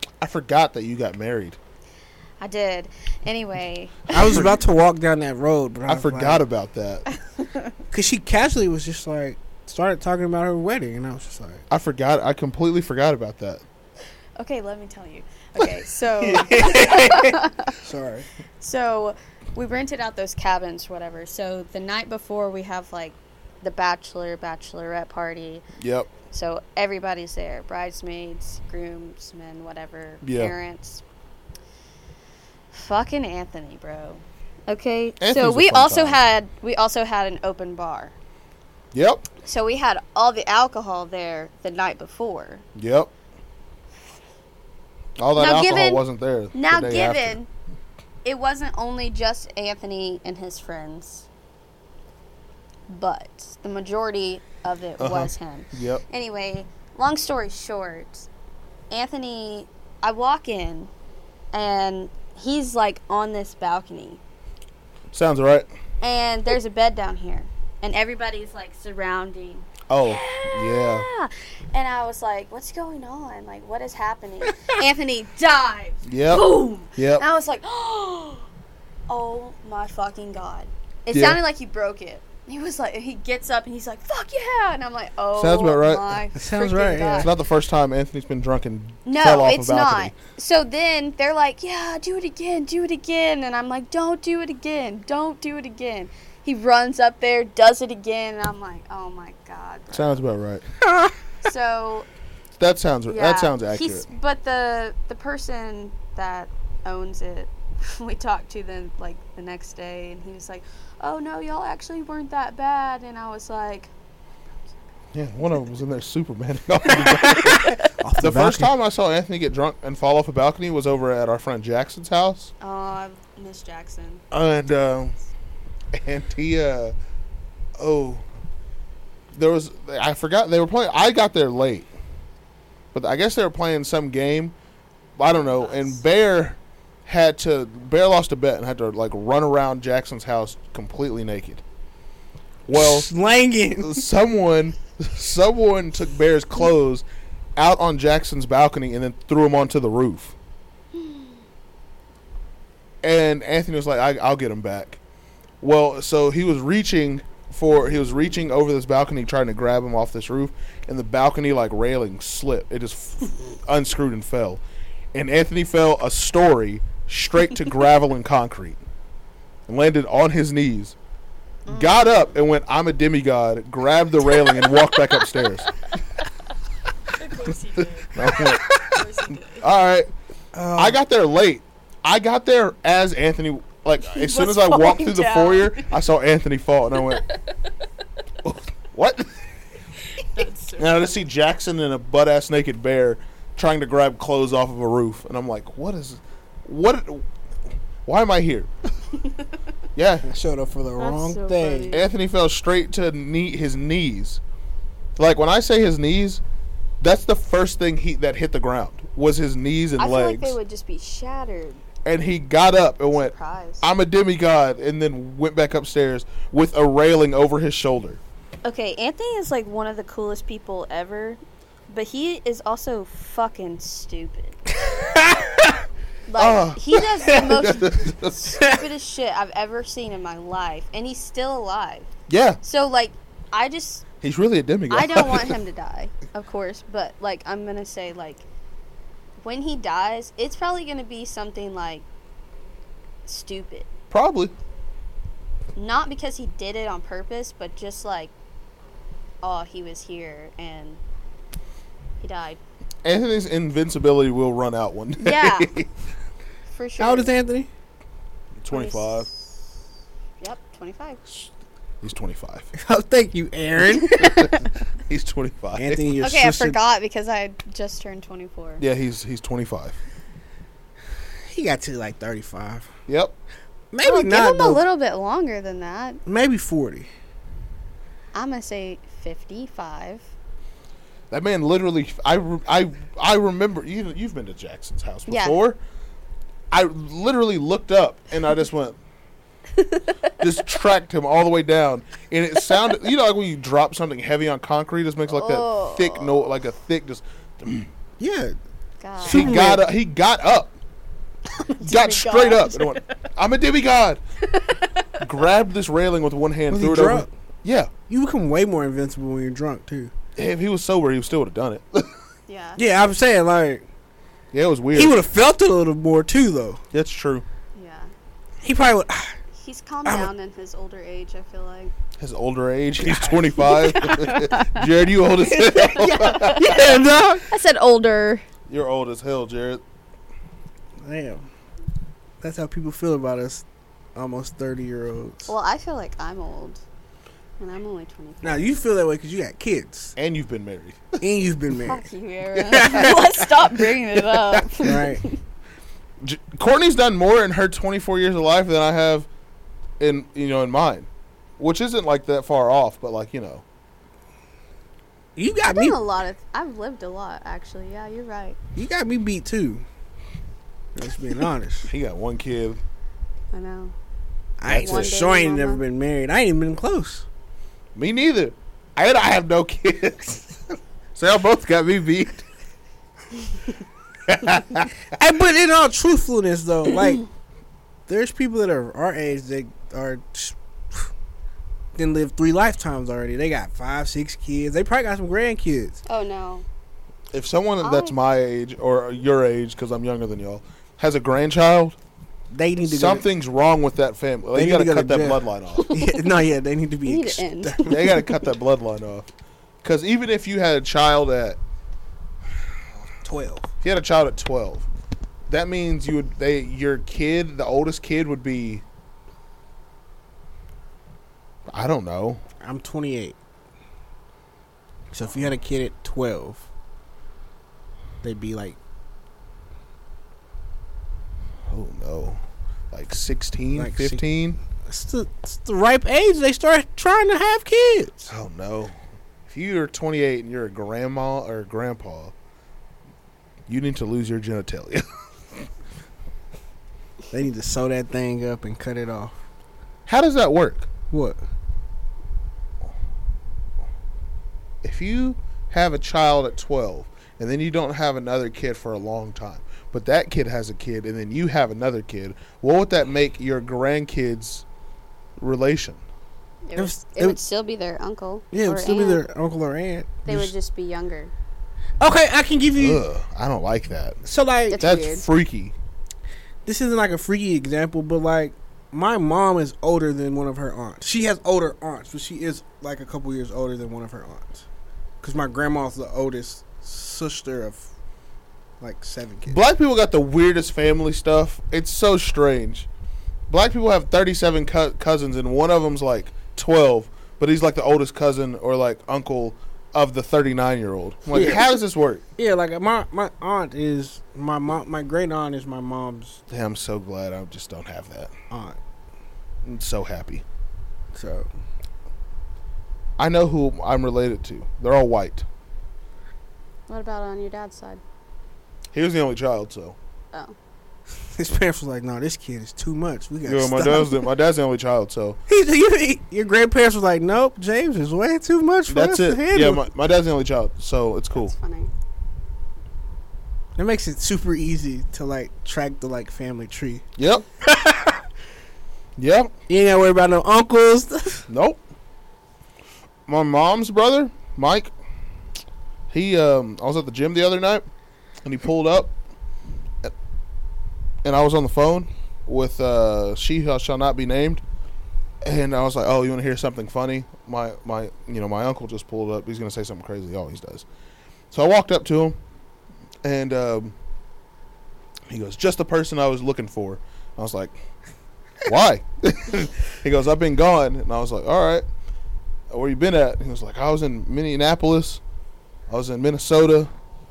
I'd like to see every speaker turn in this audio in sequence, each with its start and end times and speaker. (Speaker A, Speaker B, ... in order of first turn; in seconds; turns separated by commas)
Speaker A: 0.2-1.6, Speaker B: 2.4-4.5, Speaker C: 4.1-6.4, Speaker A: 4.2-4.5, Speaker A: 5.9-7.0, Speaker B: 7.4-7.7, Speaker C: 7.9-11.6, Speaker A: 11.7-13.6, Speaker B: 14.4-17.8, Speaker C: 16.2-18.3, Speaker B: 18.6-25.6, Speaker A: 25.8-26.1, Speaker B: 26.3-31.0, Speaker A: 30.2-30.5, Speaker B: 32.7-38.1, Speaker A: 35.2-36.2, Speaker A: 38.9-39.3, Speaker B: 39.4-42.6, Speaker A: 42.8-43.1, Speaker A: 45.2-47.4, Speaker B: 45.4-47.5, Speaker B: 48.2-51.3, Speaker B: 52.9-58.3, Speaker A: 55.0-56.0, Speaker B: 58.9-60.9, Speaker B: 61.5-64.2, Speaker A: 65.1-65.7, Speaker B: 66.0-78.5, Speaker A: 69.9-71.1, Speaker A: 76.0-77.2, Speaker B: 79.1-87.3, Speaker A: 81.1-81.4, Speaker A: 85.3-86.2, Speaker C: 86.3-87.3, Speaker A: 87.2-90.1, Speaker B: 89.0-100.2, Speaker A: 99.9-100.6, Speaker B: 101.4-102.1, Speaker A: 102.5-104.1, Speaker B: 103.1-113.9, Speaker A: 115.1-122.5, Speaker C: 117.0-118.7, Speaker B: 117.3-117.8, Speaker B: 122.6-124.2, Speaker A: 124.3-125.1, Speaker A: 125.9-126.9, Speaker A: 127.8-128.2, Speaker A: 129.3-131.9, Speaker A: 132.9-134.5, Speaker A: 135.2-141.6, Speaker B: 135.4-136.0, Speaker A: 142.7-143.1, Speaker C: 142.7-144.0, Speaker A: 143.8-147.0, Speaker A: 147.6-150.3, Speaker A: 153.0-155.0, Speaker A: 155.6-164.6, Speaker A: 165.1-168.8, Speaker A: 169.7-170.9, Speaker B: 171.7-172.3, Speaker A: 171.7-175.7, Speaker B: 174.3-175.3, Speaker B: 177.1-179.7, Speaker A: 178.1-178.6, Speaker C: 178.3-179.0, Speaker A: 179.6-180.1, Speaker C: 180.5-181.0, Speaker A: 180.8-187.2, Speaker B: 184.1-185.9, Speaker B: 187.0-187.3, Speaker A: 188.4-189.3, Speaker B: 190.2-191.1, Speaker A: 190.8-197.2, Speaker A: 198.0-198.7, Speaker A: 199.9-200.3, Speaker C: 200.2-202.0, Speaker B: 201.0-202.1, Speaker A: 201.9-204.4, Speaker A: 205.2-206.4, Speaker A: 207.0-210.6, Speaker B: 210.0-211.8, Speaker A: 212.0-218.2, Speaker B: 213.1-213.8, Speaker B: 218.6-224.6, Speaker C: 224.7-225.8, Speaker B: 226.2-232.1, Speaker A: 226.4-228.6, Speaker C: 227.2-227.5, Speaker A: 232.3-232.6, Speaker B: 232.6-234.1, Speaker A: 234.2-235.6, Speaker B: 234.9-238.4, Speaker B: 239.4-242.0, Speaker B: 243.2-243.9, Speaker A: 244.1-244.5, Speaker B: 245.7-248.3, Speaker B: 249.4-251.0, Speaker B: 252.2-252.6, Speaker A: 253.0-255.9, Speaker B: 255.2-255.7, Speaker B: 256.7-257.3, Speaker C: 257.0-257.7, Speaker A: 258.6-259.3, Speaker B: 258.7-259.3, Speaker B: 260.4-261.2, Speaker A: 262.0-262.7, Speaker C: 262.7-264.5, Speaker B: 264.0-264.6, Speaker A: 264.2-264.5, Speaker A: 265.1-266.0, Speaker C: 265.8-266.8, Speaker B: 266.2-268.8, Speaker A: 268.8-270.0, Speaker C: 271.5-272.9, Speaker A: 273.1-273.3, Speaker C: 273.9-274.8, Speaker B: 274.0-276.2, Speaker C: 276.2-277.1, Speaker B: 278.3-280.2, Speaker A: 281.3-285.8, Speaker B: 285.3-285.6, Speaker A: 286.7-289.0, Speaker B: 289.8-290.3, Speaker A: 290.4-297.9, Speaker B: 295.3-296.5, Speaker C: 298.2-298.6, Speaker B: 299.0-299.6, Speaker C: 299.2-299.8, Speaker A: 299.3-300.7, Speaker B: 301.6-303.1, Speaker A: 301.8-304.2, Speaker B: 304.5-305.1, Speaker A: 305.2-307.9, Speaker C: 306.7-307.3, Speaker C: 308.1-310.1, Speaker A: 310.4-312.1, Speaker B: 312.5-312.8, Speaker C: 312.8-313.9, Speaker A: 314.5-315.2, Speaker C: 314.9-316.8, Speaker A: 316.9-317.4, Speaker B: 317.7-318.1, Speaker C: 318.6-319.3, Speaker B: 319.6-321.9, Speaker C: 320.0-320.3, Speaker A: 322.2-327.0, Speaker C: 323.0-323.4, Speaker B: 323.6-324.9, Speaker C: 325.4-327.4, Speaker B: 325.6-328.4, Speaker A: 328.7-329.8, Speaker C: 331.0-331.5, Speaker C: 332.4-335.5, Speaker B: 335.5-336.8, Speaker B: 337.6-338.8, Speaker C: 338.4-340.1, Speaker A: 340.2-341.2, Speaker C: 341.2-342.0, Speaker B: 341.7-345.3, Speaker C: 342.6-343.3, Speaker A: 344.5-344.9, Speaker C: 344.8-345.2, Speaker A: 346.2-349.3, Speaker A: 350.0-351.1, Speaker A: 351.6-353.6, Speaker C: 355.4-356.0, Speaker B: 355.7-358.6, Speaker C: 358.8-359.8, Speaker C: 360.9-361.9, Speaker A: 361.9-362.8, Speaker B: 363.5-363.9, Speaker C: 364.6-367.2, Speaker A: 364.7-365.1, Speaker B: 364.7-365.8, Speaker A: 367.9-370.6, Speaker A: 371.1-372.4, Speaker A: 374.3-374.9, Speaker C: 375.1-377.2, Speaker C: 378.1-381.1, Speaker C: 381.9-386.0, Speaker B: 386.1-386.6, Speaker A: 387.3-392.0, Speaker B: 387.8-388.1, Speaker C: 392.5-393.2, Speaker A: 392.9-395.9, Speaker C: 394.5-398.2, Speaker B: 395.8-396.2, Speaker B: 397.1-398.4, Speaker A: 397.9-399.3, Speaker A: 399.8-401.6, Speaker C: 403.2-403.7, Speaker A: 403.8-404.9, Speaker A: 405.5-408.8, Speaker A: 411.7-412.4, Speaker C: 412.6-413.4, Speaker C: 415.1-416.7, Speaker C: 418.2-418.8, Speaker A: 421.7-422.4, Speaker A: 422.9-424.6, Speaker C: 423.7-424.2, Speaker C: 424.8-428.3, Speaker A: 428.3-428.9, Speaker A: 429.5-432.3, Speaker A: 433.7-435.6, Speaker C: 437.3-439.3, Speaker A: 440.1-440.9, Speaker C: 441.1-441.4, Speaker A: 444.8-454.6, Speaker A: 455.4-456.0, Speaker B: 456.6-459.2, Speaker C: 456.8-457.4, Speaker C: 458.5-460.5, Speaker B: 460.2-461.3, Speaker C: 462.0-463.0, Speaker A: 462.8-464.2, Speaker C: 464.2-464.8, Speaker B: 464.7-465.2, Speaker A: 464.8-465.7, Speaker C: 466.6-474.6, Speaker C: 475.2-477.9, Speaker C: 478.8-479.6, Speaker A: 479.5-482.9, Speaker A: 483.5-492.2, Speaker C: 491.3-491.6, Speaker C: 492.4-496.4, Speaker A: 496.5-498.3, Speaker C: 498.5-498.8, Speaker A: 499.6-500.4, Speaker C: 501.1-501.5, Speaker A: 503.2-505.4, Speaker B: 506.9-508.0, Speaker A: 508.9-509.9, Speaker C: 511.3-514.2, Speaker A: 513.5-515.4, Speaker C: 515.5-519.8, Speaker A: 518.9-521.5, Speaker B: 521.3-521.9, Speaker C: 523.8-527.0, Speaker A: 527.2-527.4, Speaker C: 527.6-528.2, Speaker A: 529.2-529.5, Speaker C: 529.7-531.5, Speaker A: 531.5-531.8, Speaker A: 533.3-534.9, Speaker A: 536.1-537.9, Speaker A: 538.4-539.1, Speaker A: 541.2-544.6, Speaker A: 545.4-550.8, Speaker A: 551.5-552.4, Speaker A: 553.2-553.9, Speaker A: 555.3-557.8, Speaker A: 558.6-561.9, Speaker A: 562.7-565.2, Speaker A: 565.9-566.9